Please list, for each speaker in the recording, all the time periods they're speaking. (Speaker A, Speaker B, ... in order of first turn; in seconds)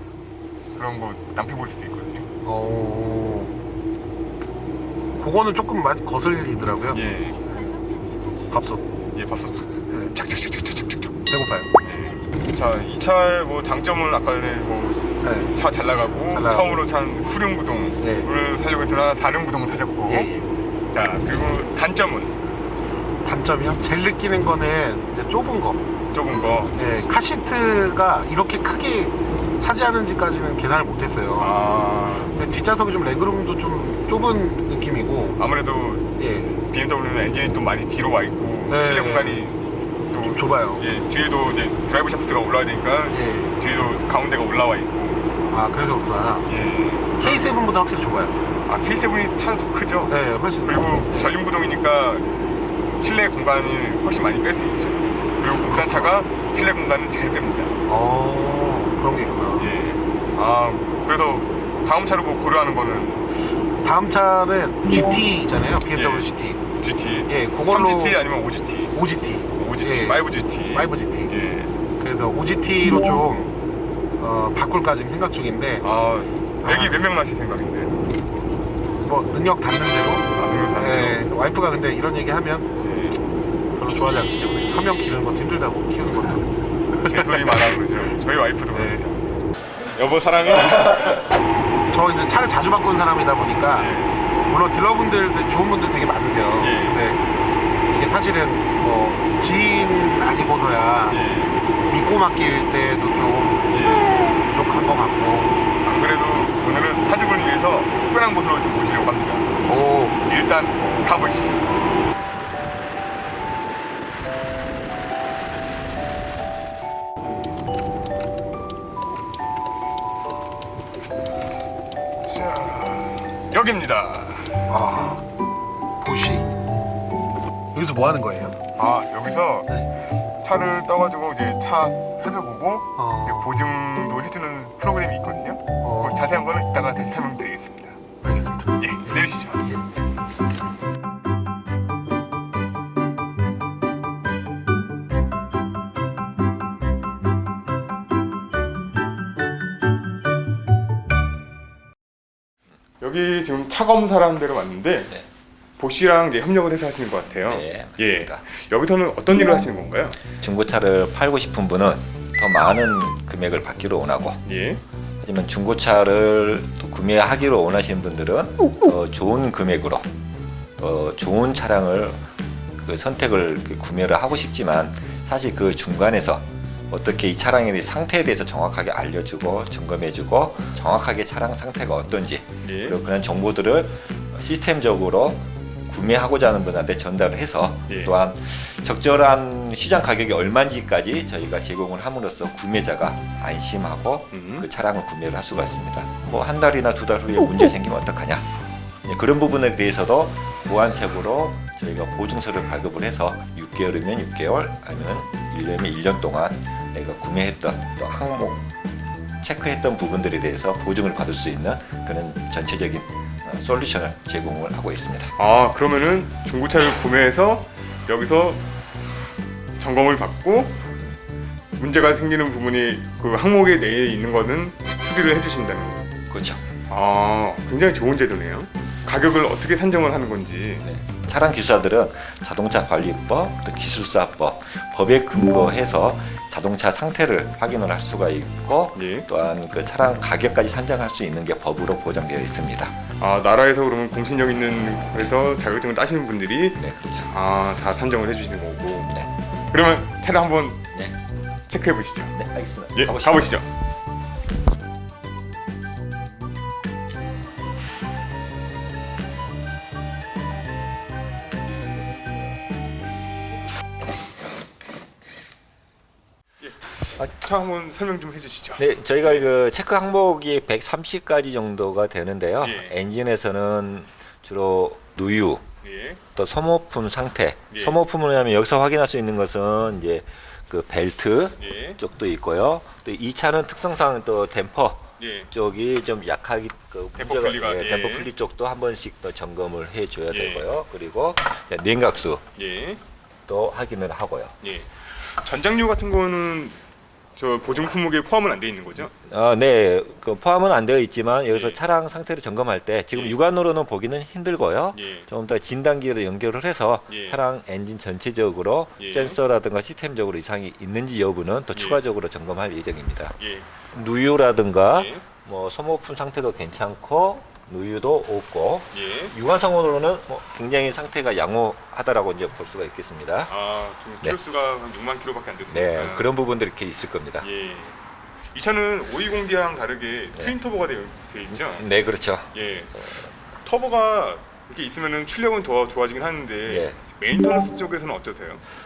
Speaker A: 0.8-2.3, 6.9-7.4, 9.1-11.2, 11.8-20.3, 20.9-22.4, 26.1-26.8, 31.4-32.3, 35.4-45.3, 46.5-47.5, 48.6-52.4, 53.0-57.7, 59.6-63.3, 65.9-69.0, 69.5-71.7, 75.8-78.0, 80.3-81.2, 82.8-83.2, 87.0-89.2, 89.9-91.2, 93.8-94.2, 96.6-97.0, 101.1-101.6, 103.7-104.1, 105.8-109.5, 110.2-111.7, 122.2-124.7, 128.8-129.8, 130.4-138.0, 138.8-139.7, 153.0-155.1, 155.8-160.2, 164.4-164.8, 182.6-183.0, 187.9-188.1, 194.3-194.7, 215.4-218.6, 219.8-220.8, 221.8-226.1, 226.9-230.9, 238.9-239.3, 243.2-249.1, 249.7-250.8, 251.7-252.4, 252.9-253.7, 266.6-269.5, 272.6-272.9, 275.8-276.2, 277.7-278.0, 281.6-282.0, 285.2-285.5, 287.2-288.3, 290.3-290.7, 292.6-293.0, 294.6-296.8, 297.4-299.1, 301.5-301.8, 303.1-303.4, 304.9-305.3, 307.1-307.4, 309.0-309.4, 311.7-312.0, 313.4-313.7, 314.9-315.2, 318.9-319.4, 323.5-326.3, 327.4-328.0, 328.5-331.9, 332.5-333.0, 333.6-338.6
Speaker B: 2.4-3.6, 5.2-7.0, 8.5-8.9, 11.3-11.7, 15.2-15.6, 16.3-16.8, 18.0-18.3, 20.1-20.6, 23.2-25.8, 26.8-31.6, 32.2-35.4, 36.2-36.6, 38.7-39.5, 40.2-40.9, 43.1-43.6, 45.4-46.5, 47.2-48.4, 50.1-51.3, 55.4-56.4, 57.9-59.8, 63.8-66.6, 67.3-68.2, 68.9-71.3, 72.0-73.5, 74.2-75.8, 76.6-77.0, 79.0-82.7, 83.8-87.6, 88.7-89.0, 91.9-93.9, 94.5-97.2, 97.9-101.2, 101.9-105.6, 109.7-110.2, 124.7-125.2, 126.0-126.5, 127.7-128.6, 133.0-133.5, 135.8-136.4, 138.2-139.8
Speaker C: 157.3-158.4, 160.3-164.4, 165.2-170.1, 170.8-172.3, 172.8-198.5, 199.0-208.7, 209.4-215.3, 226.3-226.7, 230.8-243.0, 246.8-247.3, 252.3-253.6, 268.8-275.6, 276.4-292.4, 293.5-294.6, 299.0-313.4, 313.9-323.5, 325.7-327.5, 331.5-333.3, 336.7-337.0